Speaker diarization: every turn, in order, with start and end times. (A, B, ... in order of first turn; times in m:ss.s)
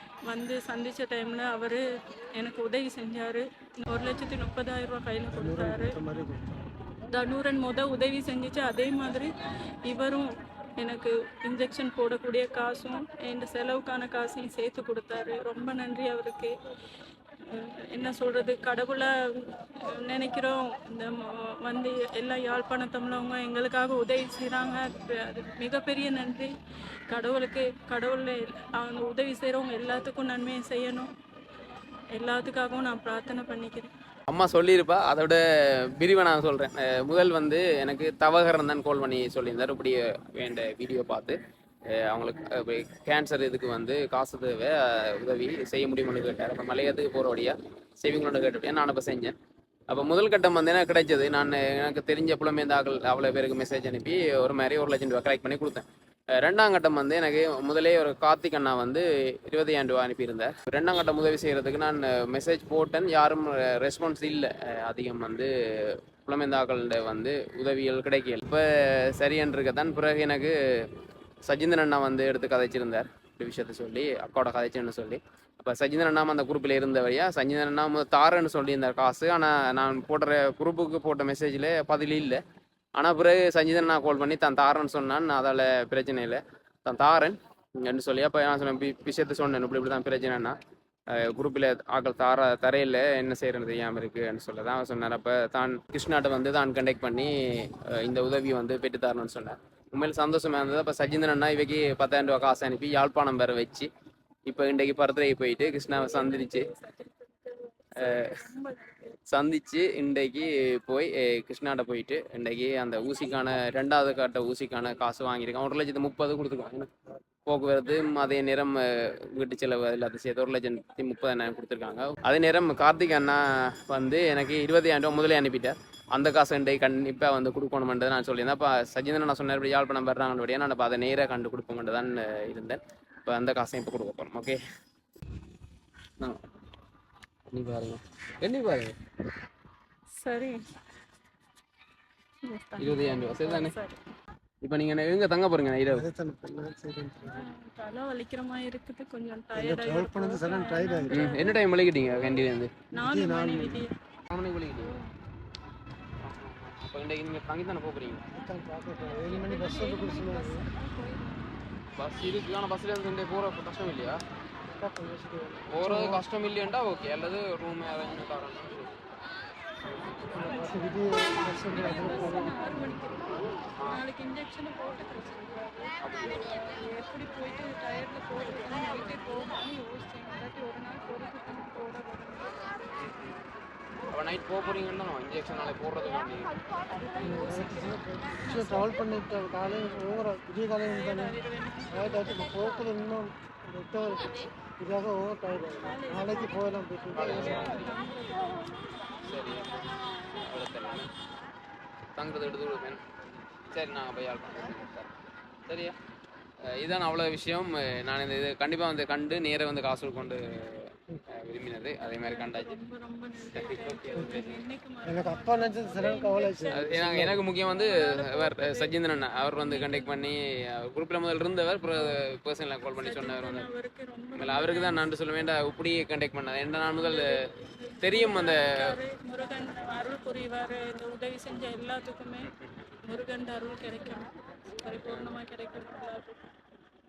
0:00.2-0:06.0 A
0:05.3-0:06.6 B
0:07.1-0:09.3 A
0:09.8-0:16.6 A
0:17.4-0:26.5 A
0:27.1-0:31.1 A
0:32.2-0:33.9 A
0:34.3-0:41.4 C
0:41.9-0:49.4 C
0:49.9-0:55.8 C
0:56.4-1:10.6 C
1:11.5-1:22.4 C
1:23.0-1:30.6 C
1:31.1-1:43.9 C
1:44.5-1:46.7 C
1:45.9-1:49.2 A
1:48.0-1:48.4 C
1:49.3-1:56.9 C
1:57.4-2:14.6 C
2:17.5-2:19.0 C
2:20.2-2:20.6 A
2:22.4-2:24.0 A
2:22.8-2:23.8 C
2:24.6-2:26.1 C
2:25.9-2:27.5 B
2:27.2-2:33.9 A
2:29.6-2:31.3 B
2:31.1-2:32.8 C
2:32.9-2:33.9 B
2:34.3-2:35.0 C
2:34.8-2:35.0 A
2:36.2-2:38.3 C
2:38.3-2:40.6 B
2:39.0-2:41.5 A
2:42.0-2:44.2 C
2:44.7-2:46.2 B
2:45.7-2:49.0 C
2:50.3-2:52.9 B
2:51.5-3:02.9 A
2:56.0-2:56.5 C
3:03.0-3:03.4 C
3:04.1-3:06.5 C
3:06.9-3:09.0 A
3:07.2-3:11.4 B
3:09.7-3:10.1 A
3:10.8-3:12.6 A
3:11.9-3:17.8 B
3:15.8-3:18.9 A
3:17.1-3:18.0 C
3:19.2-3:21.1 C
3:22.2-3:23.0 C
3:23.7-3:25.1 C
3:25.7-3:26.0 C
3:26.7-3:32.8 C
3:32.0-3:40.3 A
3:33.5-3:34.6 C
3:35.1-3:37.4 B
3:36.7-3:43.7 C
3:43.0-3:45.1 A
3:44.4-3:47.4 C
3:47.0-3:52.5 A
3:48.0-3:48.9 C
3:52.4-3:52.7 C
3:53.0-3:56.4 A
3:54.9-3:55.4 C